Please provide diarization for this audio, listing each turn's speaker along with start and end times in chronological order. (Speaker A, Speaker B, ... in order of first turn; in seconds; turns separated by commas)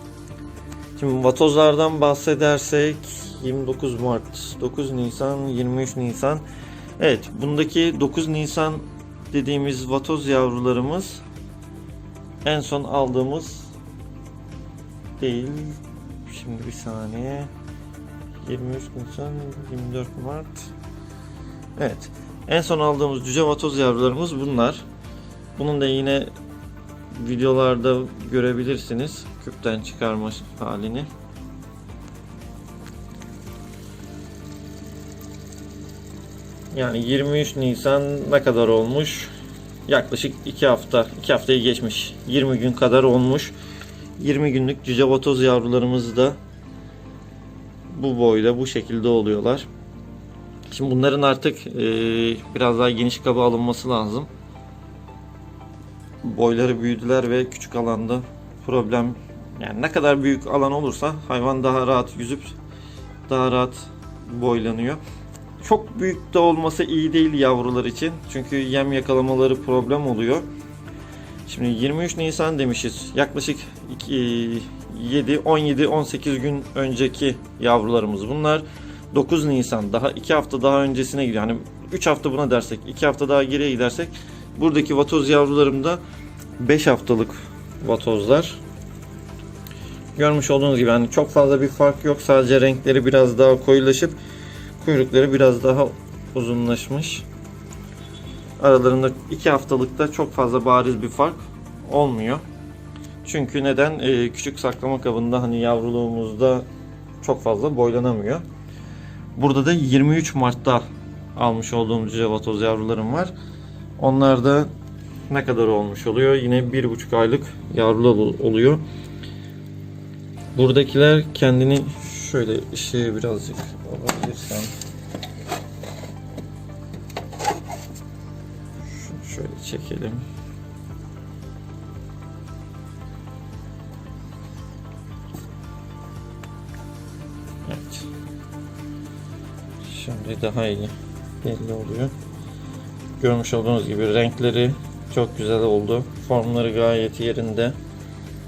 Speaker A: 1.0-6.4, Speaker A: 7.0-11.2, Speaker A: 12.4-13.7, Speaker A: 15.2-17.5, Speaker A: 18.4-20.7, Speaker A: 21.8-24.9, Speaker A: 25.6-26.3, Speaker A: 27.1-31.1, Speaker A: 36.7-39.3, Speaker A: 39.9-43.5, Speaker A: 44.2-46.4, Speaker A: 47.9-49.7, Speaker A: 50.7-54.3, Speaker A: 56.2-62.5, Speaker A: 63.3-65.0, Speaker A: 65.6-70.5, Speaker A: 71.5-86.0, Speaker A: 86.6-88.6, Speaker A: 90.2-94.2, Speaker A: 94.8-97.2, Speaker A: 98.6-102.4, Speaker A: 103.2-106.7, Speaker A: 107.2-108.4, Speaker A: 109.3-113.3, Speaker A: 114.0-114.7, Speaker A: 115.3-118.8, Speaker A: 120.5-124.8, Speaker A: 128.9-130.2, Speaker A: 137.6-138.1, Speaker A: 139.8-142.1, Speaker A: 143.2-147.8